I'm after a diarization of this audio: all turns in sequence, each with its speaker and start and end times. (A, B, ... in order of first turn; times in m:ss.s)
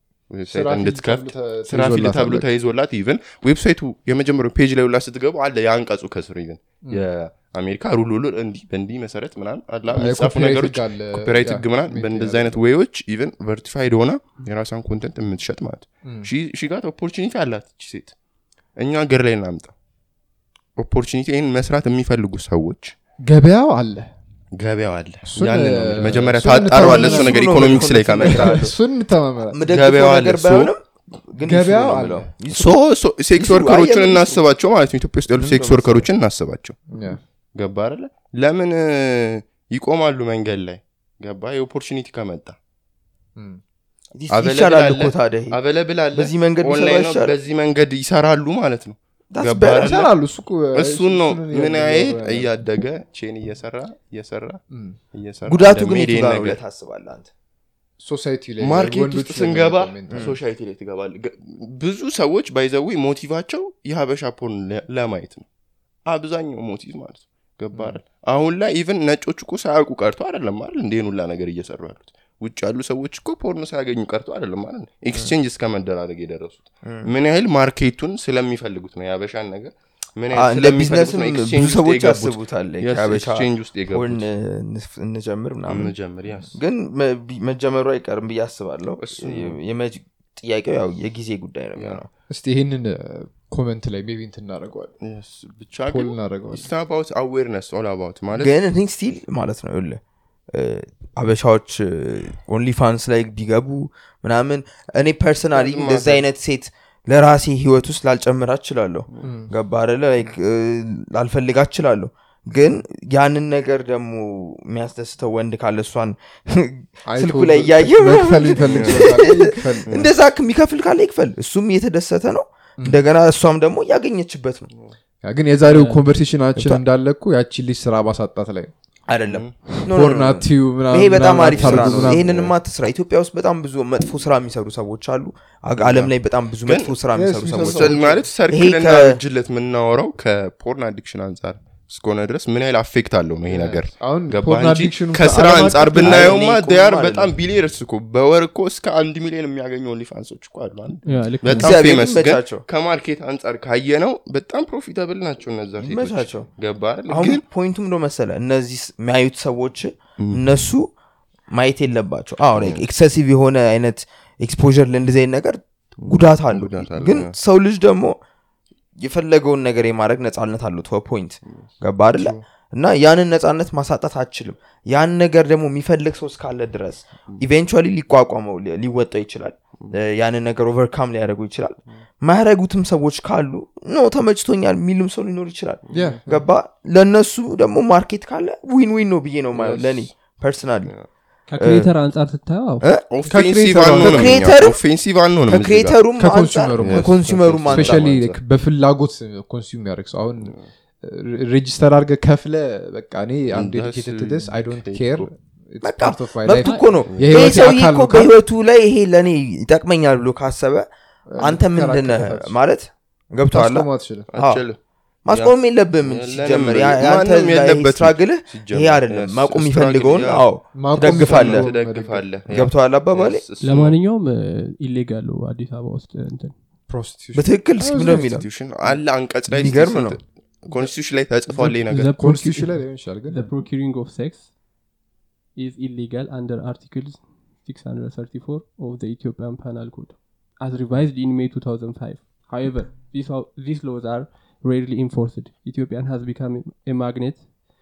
0:00.3-0:18.2 A
0:00.5-0:02.5 B
0:09.9-0:12.6 B
0:18.8-0:19.7 A
0:20.8-0:22.9 A
0:23.2-0:24.1 B
0:24.5-0:28.7 A
0:25.3-0:29.6 B
0:26.7-0:28.7 C
0:29.5-0:32.8 C
0:29.7-0:30.7 A
0:31.4-0:32.3 B
0:32.5-0:36.8 A
0:33.3-0:34.4 C
0:35.3-0:36.0 C
0:36.9-0:37.2 B
0:37.6-0:42.6 A
0:43.4-0:43.6 B
0:44.2-0:45.6 C
0:44.3-0:50.1 A
0:46.1-0:47.3 C
0:49.3-0:50.1 C
0:49.7-0:52.5 B
0:50.7-0:54.6 A
0:54.7-0:55.0 B
0:55.1-0:56.6 A
0:55.5-0:57.3 C
0:58.0-1:00.3 B
0:58.6-1:05.4 A
1:00.1-1:00.4 C
1:06.0-1:24.2 A
1:07.7-1:08.0 B
1:20.3-1:25.9 C
1:25.7-1:26.5 A
1:26.5-1:32.1 C
1:29.0-1:29.6 A
1:31.8-1:32.0 A
1:32.3-1:34.9 B
1:35.0-1:38.5 A
1:35.9-1:36.7 B
1:38.4-1:40.0 C
1:40.5-2:04.7 C
1:45.5-1:46.2 A
1:49.2-1:49.5 B
1:57.0-2:00.0 B
1:58.6-1:59.2 A
2:05.2-2:08.7 B
2:05.7-2:06.0 D
2:06.6-2:06.8 C
2:09.1-2:19.2 C
2:09.3-2:09.6 A
2:09.9-2:12.3 B
2:11.5-2:12.5 A
2:15.8-2:16.1 A
2:16.6-2:16.9 A
2:17.1-2:18.2 B
2:17.6-2:37.4 A
2:23.4-2:26.3 B
2:26.0-2:27.3 C
2:31.0-2:31.8 D
2:31.5-2:32.6 C
2:35.8-2:36.5 C
2:37.1-2:40.9 C
2:40.2-2:40.6 A
2:41.5-2:48.2 C
2:42.6-2:42.8 A
2:46.0-2:47.3 A
2:49.0-3:10.9 C
2:51.5-2:52.4 A
3:05.9-3:06.2 A
3:05.9-3:06.4 B
3:09.5-3:10.1 A
3:11.5-3:12.8 D
3:11.6-3:11.9 C
3:13.1-3:16.0 A
3:13.3-3:14.5 B
3:13.9-3:14.8 C
3:15.5-3:18.0 C
3:16.2-3:28.3 B
3:16.8-3:18.4 A
3:20.4-3:20.7 A
3:23.5-3:25.3 A
3:25.8-3:30.9 C
3:27.1-3:27.4 A
3:31.3-3:32.6 B
3:31.4-3:34.6 C
3:33.5-3:34.3 B
3:34.3-3:44.0 A
3:35.2-3:41.7 C
3:40.7-3:42.3 B
3:42.5-3:43.4 C
3:43.6-3:46.5 D
3:46.9-3:48.3 B
3:47.3-3:48.4 C
3:47.8-3:52.1 A
3:49.5-3:50.2 C
3:51.5-3:54.5 D
3:52.1-3:53.5 B
3:55.5-4:07.5 D